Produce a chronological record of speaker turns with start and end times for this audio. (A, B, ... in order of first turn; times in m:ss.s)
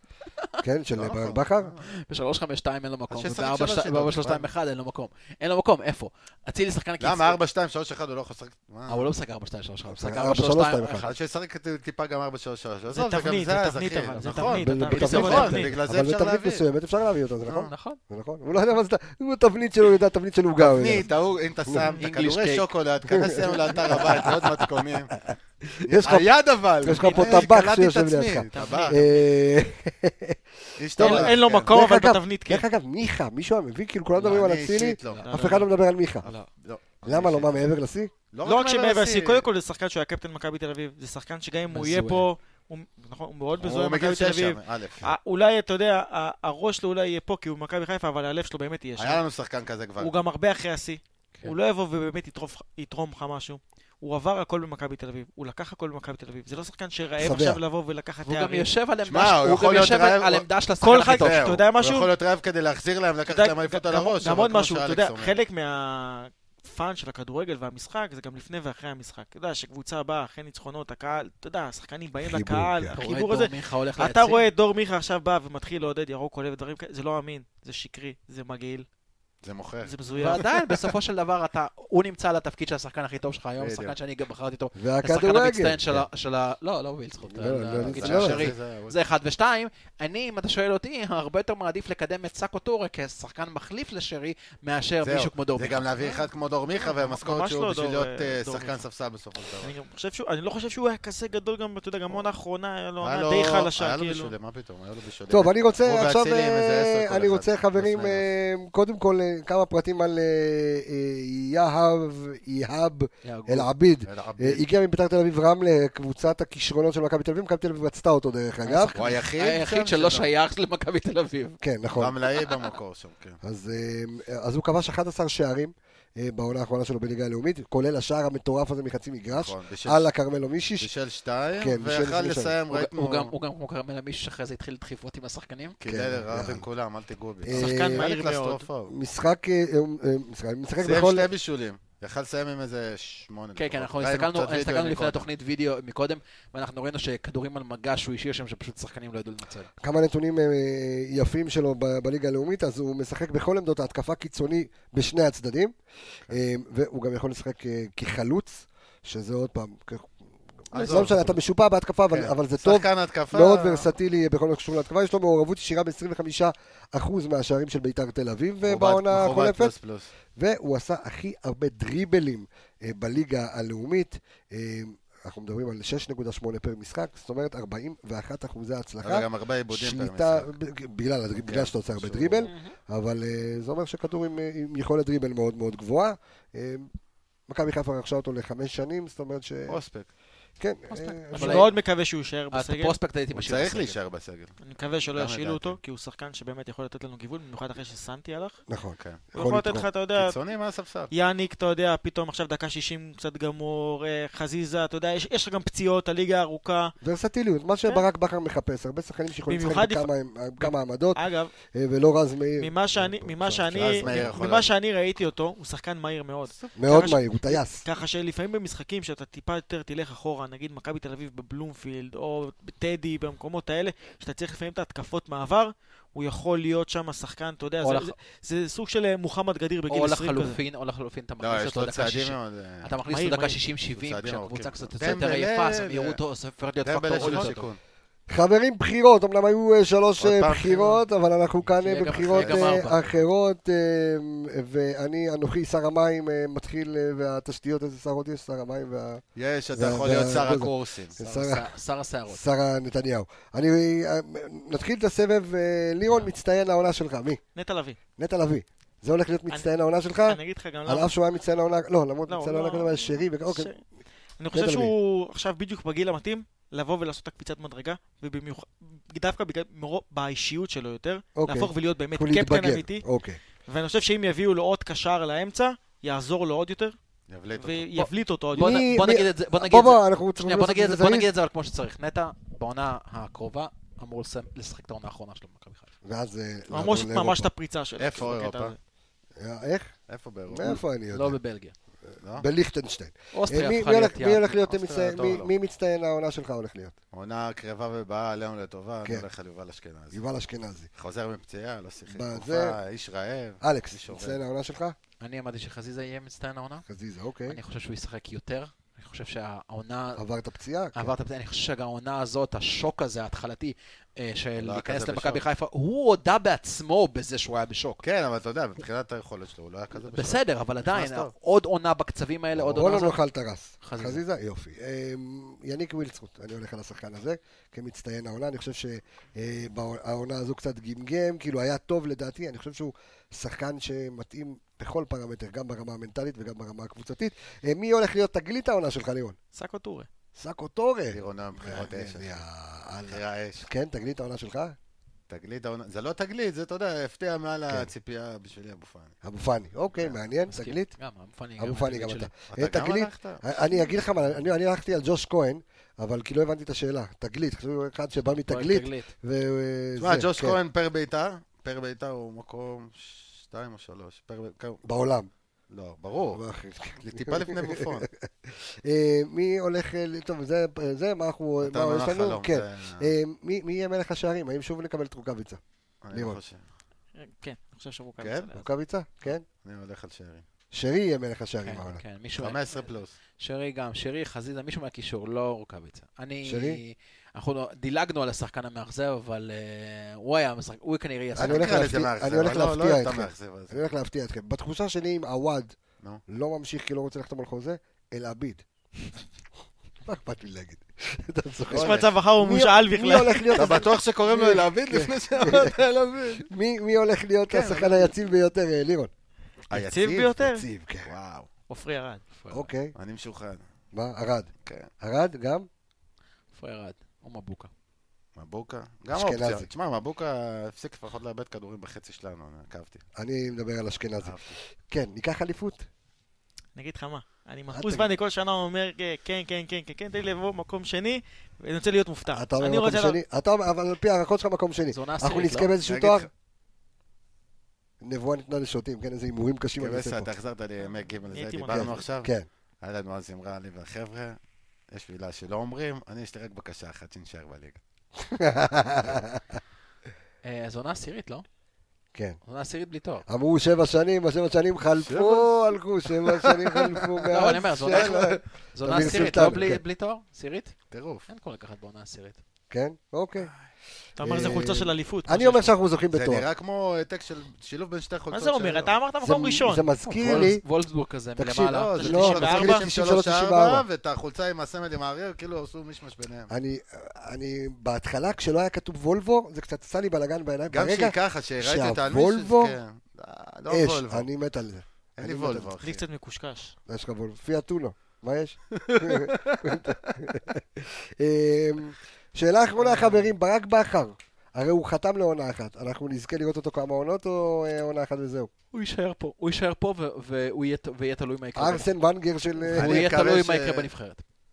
0:00.2-0:00.5 A
0:00.6-0:01.7 B
0:01.0-0:01.8 C
0:01.8-0:07.4 A
0:03.1-0:04.5 C
0:07.0-0:09.0 C
0:08.9-0:11.2 A
0:09.9-0:11.1 B
0:10.9-0:16.6 C
0:12.9-0:15.7 D
0:14.6-0:21.0 B
0:14.9-0:15.5 A
0:17.5-0:18.0 A
0:20.6-0:25.2 C
0:22.0-0:22.6 A
0:23.1-0:24.6 B
0:25.2-0:36.2 B
0:26.0-0:29.0 C
0:27.0-0:27.5 D
0:28.5-0:29.3 D
0:30.8-0:31.7 C
0:31.0-0:32.6 D
0:34.2-0:35.4 C
0:35.1-0:35.7 D
0:36.2-0:36.5 D
0:36.2-0:37.7 C
0:37.0-0:38.1 B
0:38.3-0:39.4 C
0:38.4-0:49.2 D
0:41.7-0:42.3 A
0:43.6-0:45.1 C
0:49.0-0:50.1 C
0:50.0-0:58.7 D
0:57.2-0:57.6 B
0:58.2-1:01.6 A
0:59.0-1:00.5 C
1:00.8-1:02.1 D
1:01.2-1:05.4 C
1:03.3-1:18.8 D
1:12.2-1:12.9 B
1:13.0-1:14.4 A
1:19.4-1:20.8 C
1:19.8-1:20.4 D
1:20.2-1:36.2 A
1:23.6-1:23.9 C
1:24.8-1:26.0 B
1:27.2-1:28.5 B
1:27.7-1:29.0 C
1:35.0-1:39.7 C
1:36.8-1:38.8 D
1:39.6-1:44.3 D
1:43.0-1:48.2 C
1:45.3-1:59.0 B
1:53.2-1:53.7 A
1:54.0-1:54.6 C
1:58.6-2:01.6 A
1:58.9-2:00.3 C
2:01.6-2:02.2 B
2:02.0-2:03.4 C
2:03.4-2:10.9 B
2:09.3-2:10.1 C
2:10.8-2:13.3 C
2:11.6-2:12.6 B
2:12.7-2:15.8 A
2:15.8-2:18.9 C
2:15.8-2:16.6 B
2:17.4-2:18.1 B
2:17.5-2:18.6 D
2:18.9-2:21.3 B
2:20.8-2:25.3 C
2:23.6-2:29.7 A
2:29.8-2:35.7 B
2:36.3-2:40.1 B
2:40.7-2:41.4 C
2:40.7-2:49.7 B
2:40.8-2:41.1 A
2:42.1-2:43.9 C
2:48.6-2:50.1 C
2:50.4-3:06.9 B
2:59.0-3:00.5 C
3:01.4-3:02.5 C
3:02.4-3:02.7 A
3:07.5-3:09.8 B
3:09.7-3:10.1 C
3:10.6-3:11.7 B
3:10.9-3:11.7 A
3:11.3-3:13.0 D
3:12.5-3:14.0 A
3:13.3-3:14.6 C
3:14.6-3:18.6 D
3:15.1-3:15.8 C
3:18.7-3:19.9 B
3:19.0-3:19.2 C
3:19.3-3:20.3 D
3:20.2-3:21.1 C
3:21.1-3:26.9 D
3:27.0-3:31.2 B
3:29.5-3:31.5 D
3:31.7-3:34.3 B
3:32.6-3:50.6 D
3:33.7-3:34.7 C
3:36.8-3:37.8 B
3:47.8-3:48.1 A
3:49.9-3:57.6 A
3:51.4-3:52.9 C
3:53.1-3:53.6 D
3:53.9-3:56.2 C
3:56.8-3:57.8 C
3:58.3-4:09.2 B
4:00.2-4:01.0 C
4:01.6-4:03.2 A
4:02.2-4:02.9 C
4:09.4-4:11.1 C
4:09.7-4:11.7 B
4:11.2-4:12.4 A
4:12.3-4:17.4 B
4:17.6-4:18.0 D
4:18.2-4:23.7 B
4:20.3-4:21.1 D
4:22.3-4:23.8 D
4:24.4-4:33.0 D
4:24.5-4:24.9 B
4:31.4-4:33.4 B
4:33.6-4:36.9 D
4:37.3-4:37.8 C
4:37.6-4:38.8 D
4:38.0-4:45.9 A
4:38.5-4:41.3 B
4:46.0-4:47.5 B
4:46.7-4:48.8 D
4:48.0-4:48.7 C
4:49.4-4:49.9 B
4:50.1-4:50.8 C
4:50.5-4:51.4 B
4:51.1-4:51.7 A
4:52.1-4:56.9 B
4:53.3-4:54.6 A
4:54.5-4:55.5 C
4:57.1-5:00.2 C
5:00.1-5:00.9 B
5:00.9-5:04.4 C
5:02.1-5:02.8 B
5:03.6-5:04.9 B
5:05.2-5:06.8 A
5:06.9-5:07.6 B
5:07.5-5:10.2 A
5:10.2-5:11.1 B
5:10.9-5:18.0 A
5:14.6-5:15.4 C
5:18.0-5:21.3 C
5:20.0-5:23.2 A
5:22.5-5:39.4 B
5:23.8-5:24.2 A
5:39.5-5:40.1 D
5:40.4-5:44.8 B
5:41.1-5:42.4 C
5:43.1-5:43.7 C
5:45.3-5:49.2 C
5:49.2-5:50.9 B
5:50.5-5:52.3 A
5:51.6-6:00.6 B
5:52.5-5:54.2 C
5:58.4-5:59.1 A
6:00.0-6:04.8 C
6:04.8-6:05.3 B
6:05.7-6:06.4 C
6:06.3-6:15.6 B
6:07.0-6:08.1 C
6:11.6-6:13.1 C
6:16.0-6:16.6 C
6:16.1-6:16.4 B
6:17.2-6:18.6 D
6:18.2-6:18.5 C
6:18.5-6:19.4 B
6:19.6-6:20.4 C
6:20.7-6:22.0 B
6:21.6-6:22.6 A
6:22.4-6:23.2 C
6:23.4-6:31.9 A
6:26.4-6:26.8 B
6:31.4-6:35.8 B
6:31.4-6:33.8 C
6:36.3-6:38.6 B
6:40.0-6:45.8 B
6:41.7-6:42.1 C
6:41.7-6:43.9 D
6:43.5-6:46.5 C
6:46.5-6:49.1 B
6:47.5-6:48.1 C
6:49.7-6:50.4 C
6:49.7-6:50.6 D
6:50.4-6:51.1 B
6:51.0-6:51.5 C
6:51.7-6:52.2 D
6:52.4-6:52.7 A
6:52.5-6:52.9 B
6:52.9-6:53.6 C
6:53.9-6:54.5 B
6:54.6-6:54.9 C
6:55.0-6:55.7 B
6:56.5-6:57.7 A
6:58.4-7:03.0 C
6:59.1-6:59.7 B
7:03.2-7:05.8 B
7:04.2-7:04.6 C
7:06.7-7:13.2 D
7:07.7-7:08.1 B
7:12.3-7:16.3 B
7:14.9-7:15.7 A
7:15.8-7:16.3 C
7:18.0-7:20.3 B
7:19.8-7:24.4 C
7:21.3-7:22.0 D
7:21.7-7:22.5 B
7:24.9-7:27.8 C
7:28.3-7:29.4 B
7:30.4-7:31.4 A
7:32.4-7:33.2 A
7:33.3-7:39.8 B
7:35.0-7:39.7 C
7:37.3-7:40.7 A
7:40.9-7:41.3 C
7:41.3-7:42.4 A
7:42.7-7:43.5 B
7:44.2-7:45.7 D
7:44.2-7:46.5 B
7:46.1-7:49.0 C
7:48.3-7:49.8 D
7:49.2-7:50.6 B
7:50.0-7:52.4 A
7:50.2-7:50.5 C
7:51.4-7:53.8 B
7:51.6-7:56.5 C
7:52.0-7:52.8 D
7:56.5-8:02.8 B
8:00.7-8:04.3 C
8:03.7-8:05.7 B
8:05.2-8:06.0 C
8:05.8-8:06.7 D
8:06.9-8:18.5 B
8:08.8-8:10.0 C
8:18.7-8:21.9 A
8:21.6-8:23.2 B
8:22.6-8:24.2 A
8:22.8-8:23.9 C